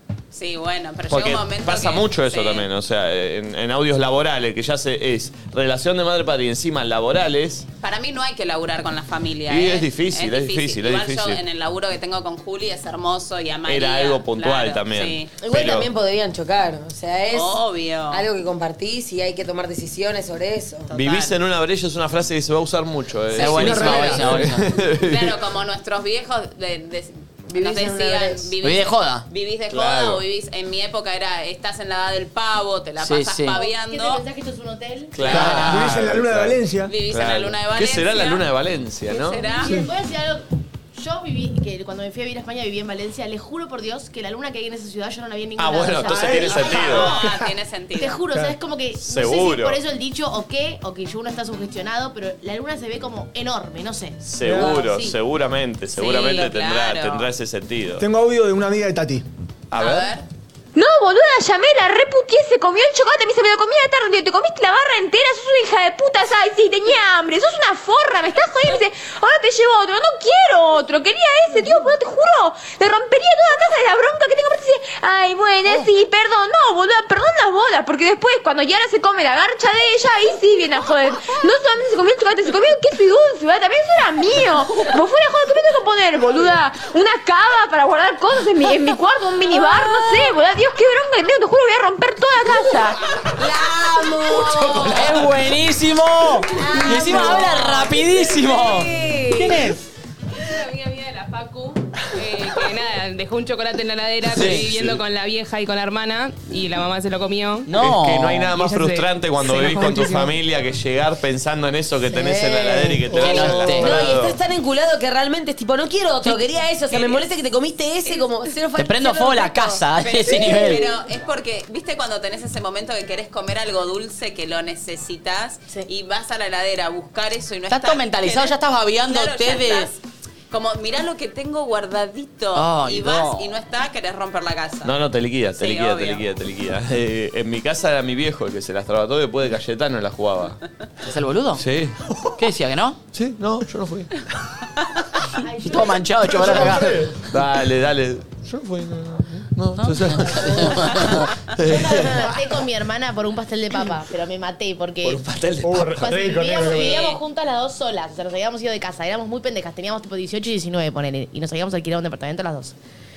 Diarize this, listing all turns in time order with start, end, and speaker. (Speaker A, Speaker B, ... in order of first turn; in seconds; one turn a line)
Speaker A: 0.3-2.7
Speaker B: 1.1-7.7
Speaker A: 7.8-15.3
Speaker B: 9.5-11.4
Speaker B: 13.7-15.9
Speaker C: 15.4-17.6
Speaker A: 17.3-18.2
Speaker C: 18.1-20.9
Speaker A: 20.9-21.3
Speaker B: 20.9-25.4
Speaker D: 23.3-24.7
Speaker E: 23.6-24.3
Speaker A: 25.0-34.2
Speaker C: 27.5-28.5
Speaker D: 28.6-29.2
Speaker B: 29.7-30.2
Speaker D: 33.0-33.6
Speaker F: 33.5-35.2
Speaker B: 35.1-39.6
Speaker A: 35.2-35.7
Speaker E: 35.2-36.9
Speaker D: 35.3-35.9
Speaker A: 36.9-38.4
Speaker A: 39.1-39.7
Speaker F: 39.5-40.4
Speaker F: 40.9-47.0
Speaker B: 45.6-47.2
Speaker E: 46.0-47.3
Speaker A: 46.2-48.2
Speaker F: 48.0-55.1
Speaker E: 48.3-48.5
Speaker B: 49.0-49.8
Speaker B: 54.2-58.0
Speaker E: 54.4-54.9
Speaker A: 55.9-57.3
Speaker E: 58.0-59.2
Speaker B: 59.7-60.1
Speaker A: 59.8-60.2
Speaker G: 60.7-93.0
Speaker C: 93.4-95.2
Speaker B: 94.4-95.1
Speaker D: 94.9-98.9
Speaker C: 96.6-99.6
Speaker H: 100.5-107.7
Speaker D: 104.3-104.8
Speaker D: 107.7-108.5
Speaker B: 107.8-114.4
Speaker H: 108.6-109.0
Speaker C: 112.1-119.8
Speaker D: 113.1-114.0
Speaker A: 117.0-117.2
Speaker D: 118.7-120.9
Speaker A: 120.0-130.0
Speaker D: 127.7-129.9
Speaker A: 130.5-134.9
Speaker D: 132.5-133.5
Speaker B: 134.8-140.6
Speaker A: 135.6-136.2
Speaker D: 141.0-141.6
Speaker B: 141.6-142.0
Speaker D: 142.4-143.0
Speaker B: 143.1-144.1
Speaker F: 145.4-146.2
Speaker D: 145.6-147.1
Speaker E: 146.2-147.2
Speaker B: 147.2-152.3
Speaker D: 149.8-151.3
Speaker F: 151.7-155.2
Speaker B: 155.0-156.8
Speaker E: 155.6-157.1
Speaker F: 156.0-162.7
Speaker A: 156.7-157.1